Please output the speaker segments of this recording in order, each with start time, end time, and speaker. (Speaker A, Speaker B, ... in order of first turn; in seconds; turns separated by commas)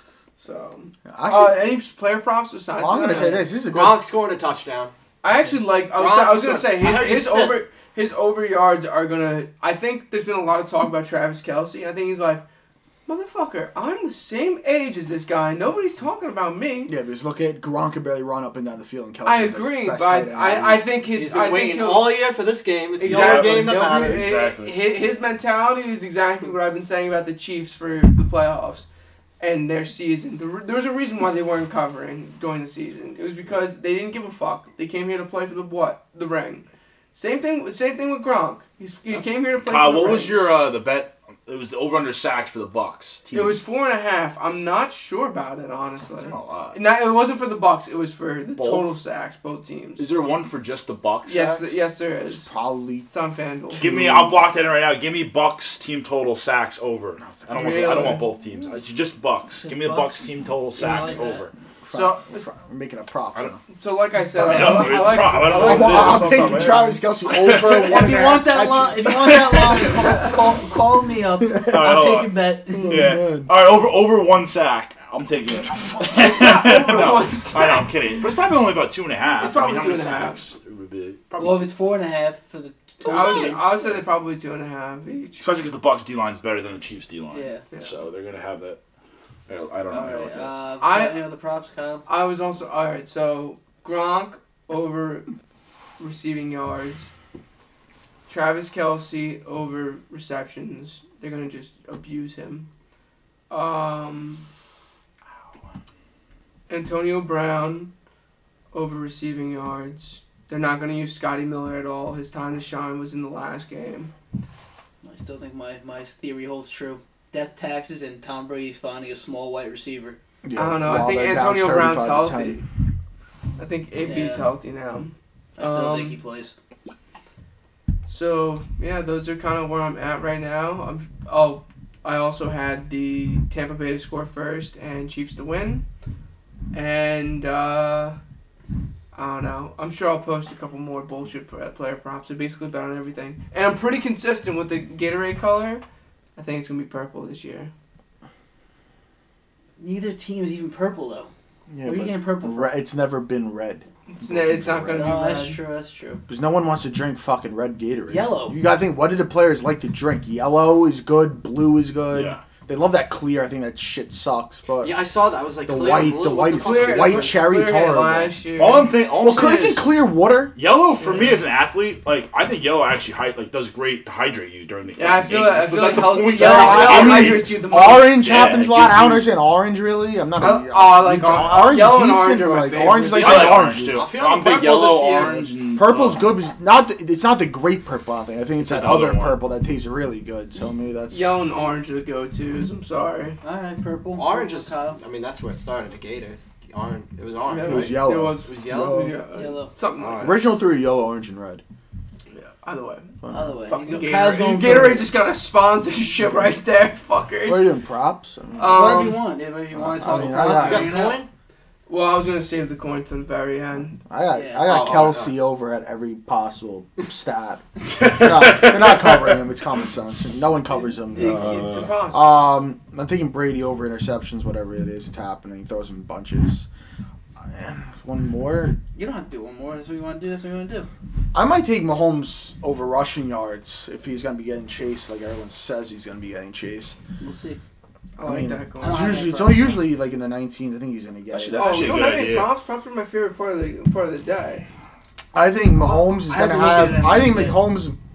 Speaker A: 0.4-3.5, Speaker B: 1.1-1.8, Speaker B: 2.8-4.0, Speaker C: 3.7-4.9, Speaker A: 5.2-12.4, Speaker C: 5.9-7.5, Speaker D: 6.8-7.5, Speaker A: 13.1-16.9, Speaker B: 16.9-20.9, Speaker A: 19.2-22.3, Speaker C: 21.1-24.2, Speaker E: 23.0-24.8, Speaker A: 23.0-28.9, Speaker A: 29.4-40.4, Speaker E: 39.5-43.6, Speaker A: 43.3-50.0, Speaker E: 46.1-46.8, Speaker E: 48.5-49.0, Speaker E: 50.0-51.7, Speaker A: 51.3-52.5, Speaker B: 52.3-53.1, Speaker A: 53.1-53.8, Speaker E: 53.7-61.5, Speaker B: 53.8-54.4, Speaker B: 57.2-57.6, Speaker A: 57.5-58.3, Speaker D: 59.6-60.2, Speaker D: 60.8-61.5, Speaker B: 61.9-63.6, Speaker A: 61.9-62.5, Speaker A: 63.7-66.8, Speaker E: 64.4-68.1, Speaker B: 64.4-69.5, Speaker D: 66.2-66.9, Speaker D: 67.7-73.1, Speaker E: 69.3-69.9, Speaker E: 71.7-81.7, Speaker B: 72.7-73.5, Speaker A: 76.0-77.9, Speaker A: 79.4-80.4, Speaker D: 81.4-83.5, Speaker E: 83.1-84.0, Speaker A: 83.1-85.4, Speaker B: 83.2-83.5, Speaker E: 85.4-88.8, Speaker D: 87.3-87.6, Speaker E: 89.5-90.6, Speaker D: 89.9-92.0, Speaker A: 90.8-91.3, Speaker A: 92.1-95.3, Speaker A: 96.0-97.1, Speaker A: 98.3-102.7, Speaker A: 103.5-104.4, Speaker A: 106.7-107.9, Speaker A: 108.7-114.1, Speaker D: 115.0-120.2, Speaker B: 120.4-122.6, Speaker A: 120.6-122.6, Speaker A: 123.6-126.2, Speaker D: 124.0-124.5, Speaker D: 125.6-126.5, Speaker A: 128.1-135.9, Speaker A: 136.7-138.2, Speaker A: 139.1-145.8, Speaker A: 146.4-147.7, Speaker D: 149.8-151.3, Speaker B: 151.7-155.2, Speaker D: 151.8-152.8, Speaker A: 154.1-155.6, Speaker D: 154.9-156.2, Speaker B: 156.3-165.0, Speaker D: 158.1-158.6, Speaker E: 162.1-162.4, Speaker C: 164.8-167.5, Speaker B: 165.6-168.4, Speaker A: 166.4-169.0, Speaker E: 168.6-169.9, Speaker B: 169.2-170.5, Speaker E: 170.6-179.4, Speaker A: 171.0-171.4, Speaker A: 175.0-178.2, Speaker B: 176.3-184.1, Speaker A: 180.4-183.5, Speaker E: 181.2-181.9, Speaker E: 183.1-186.3, Speaker C: 183.3-185.4, Speaker B: 185.8-191.4, Speaker E: 188.6-189.4, Speaker A: 191.1-193.4, Speaker D: 193.4-195.0, Speaker C: 194.2-199.1, Speaker A: 197.4-200.5, Speaker B: 197.6-199.2, Speaker D: 199.3-199.7, Speaker C: 200.0-200.4, Speaker B: 200.2-201.6, Speaker A: 202.3-203.1, Speaker B: 203.2-203.6, Speaker D: 203.3-205.1, Speaker A: 203.7-207.7, Speaker B: 207.4-208.9, Speaker A: 208.6-209.3, Speaker D: 208.6-211.2, Speaker B: 209.7-211.0, Speaker C: 210.5-211.3, Speaker A: 211.9-214.0, Speaker B: 214.1-226.7, Speaker D: 214.3-214.7, Speaker C: 214.6-215.4, Speaker E: 218.0-219.2, Speaker A: 221.1-222.5, Speaker E: 221.2-222.0, Speaker B: 227.5-228.8, Speaker D: 228.9-230.9, Speaker B: 231.3-237.0, Speaker D: 237.2-237.6, Speaker A: 238.2-239.1, Speaker B: 238.2-241.9, Speaker D: 238.8-239.8, Speaker E: 241.3-242.5, Speaker A: 241.6-244.7, Speaker B: 245.3-248.0, Speaker D: 245.8-247.7